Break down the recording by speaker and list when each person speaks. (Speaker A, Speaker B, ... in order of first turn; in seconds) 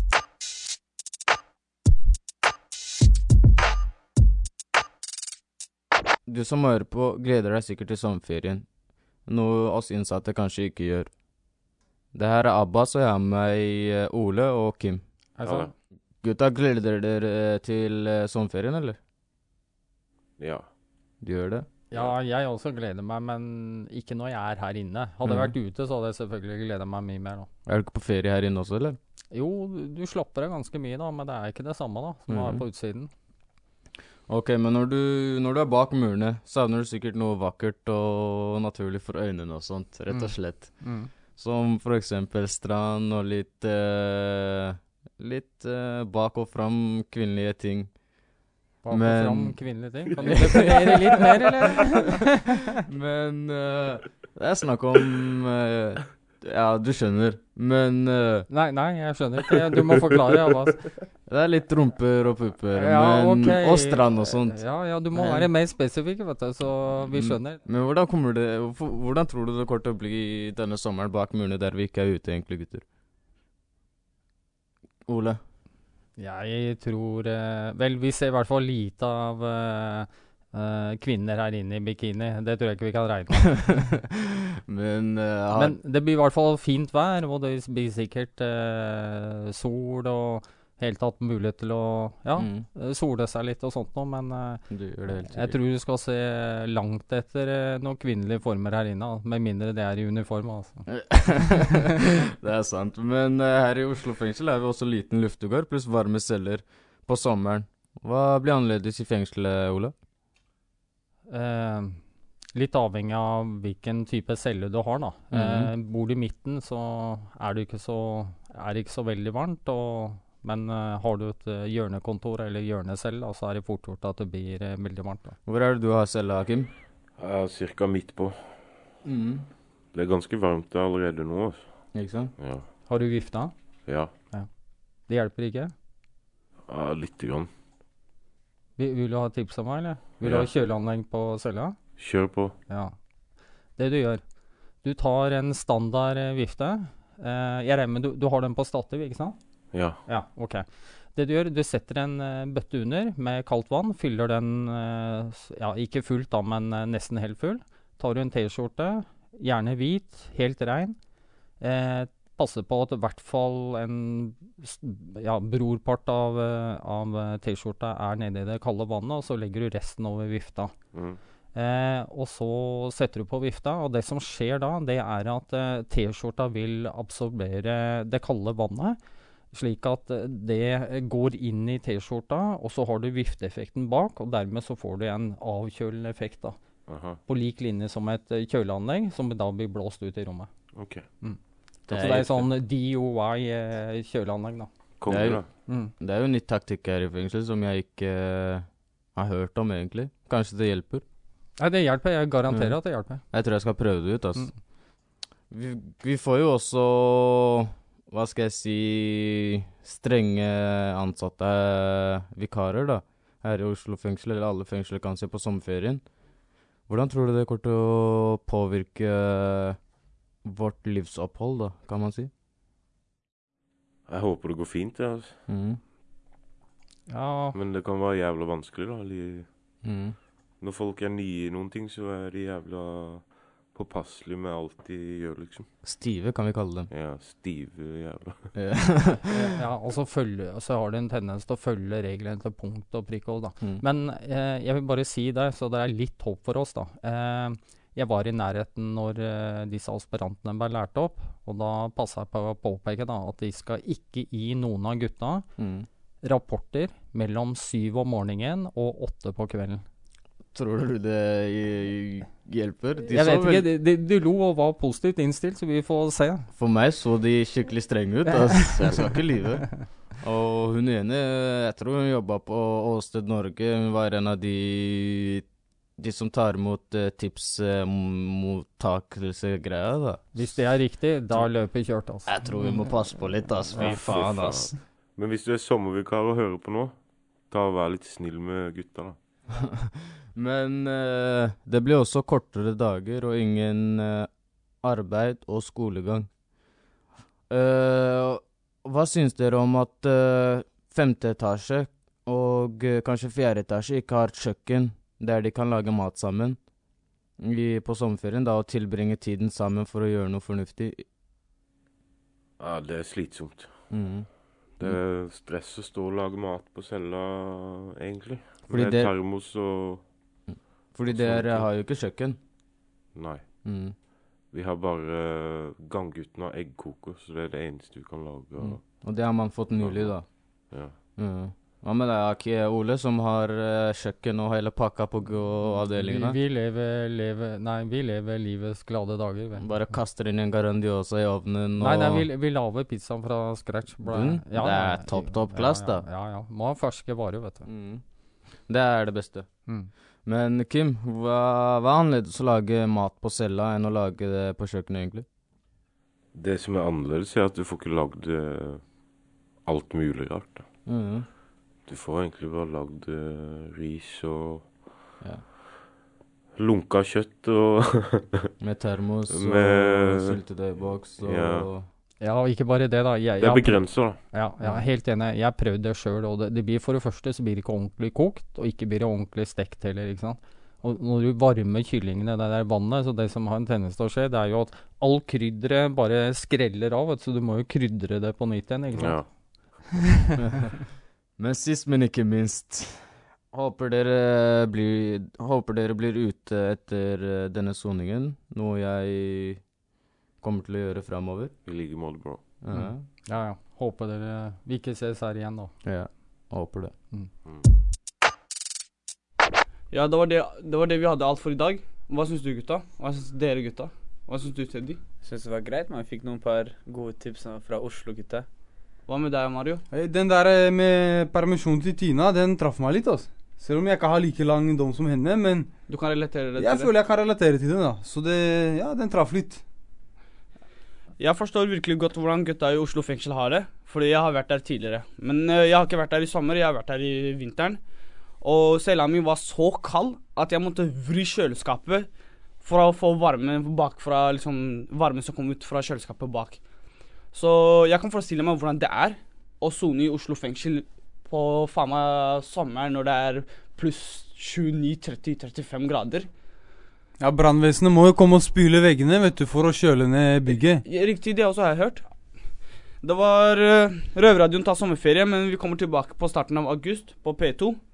Speaker A: 6.3-8.7, 9.2-11.1, 12.1-15.1, 16.2-19.0, 21.2-21.9, 25.2-25.5, 27.6-29.0, 32.3-32.6, 34.3-48.0, 48.9-51.4, 52.9-58.5, 61.3-65.5, 67.1-72.8, 75.1-75.4, 83.4-83.8, 84.7-85.8, 92.4-92.7, 94.7-95.6, 100.9-101.7, 102.4-109.9, 115.3-115.7, 125.4-126.7, 129.0-129.4, 131.9-132.3, 191.9-192.5, 195.0-201.0, 202.5-204.5, 205.5-216.1, 216.8-219.9, 220.4-222.3, 225.5-225.8, 229.8-230.2, 235.8-236.9, 238.5-239.4, 243.6-243.8, 255.6-255.9, 260.5-263.7, 266.5-280.8, 282.2-284.8, 290.4-296.3, 297.5-306.7, 307.4-311.0, 313.9-315.0, 318.7-319.3, 320.5-322.4, 323.6-324.0, 328.6-336.4, 339.6-342.3, 344.0-346.1, 347.6-355.2, 360.8-361.3, 365.2-365.4, 368.6-371.9, 374.6-374.9, 391.4-399.7, 400.4-401.6, 402.6-403.1, 405.8-407.0
Speaker B: 15.3-15.7, 21.9-27.5, 29.3-33.1, 40.1-41.2, 48.8-52.2, 58.5-60.9, 62.8-67.6, 76.2-83.4, 85.5-94.7, 95.3-100.8, 111.3-112.0, 112.5-125.3, 132.8-133.5, 134.2-134.5, 135.0-135.7, 138.8-141.8, 142.7-142.9, 143.8-144.2, 144.8-161.0, 161.6-170.7, 171.5-179.0, 179.5-186.6, 187.2-190.5, 191.2-194.7, 195.6-195.9, 201.6-203.2, 227.1-227.6, 239.3-255.5, 256.2-259.8, 263.1-266.5, 269.6-269.9, 280.3-283.0, 283.7-284.0, 335.8-340.0, 341.8-347.7, 349.6-349.9, 372.2-389.9, 402.7-405.7
Speaker C: 15.4-15.7, 20.4-20.7, 127.2-128.8, 129.9-131.8, 132.4-132.7, 133.8-134.2, 136.7-137.5, 140.2-140.5, 141.9-142.6, 149.7-150.0, 170.9-171.2, 186.8-187.2, 190.7-191.1, 195.0-195.6, 224.1-225.4, 227.5-229.6, 230.6-235.7, 236.9-238.5, 283.7-289.2, 312.6-320.4, 321.0-321.7, 323.1-323.5, 324.3-331.0, 356.3-359.0, 359.6-360.6, 361.8-365.0, 366.6-368.4, 369.3-371.7, 373.4-374.3, 388.9-389.8, 401.6-402.5
Speaker D: 409.9-415.0, 419.1-419.8, 425.9-426.9, 431.2-437.8, 438.4-442.1, 442.6-446.6, 447.3-456.3, 460.5-462.0, 463.0-467.8
Speaker E: 415.2-418.5
Speaker F: 419.9-425.7, 426.6-429.6, 457.2-460.8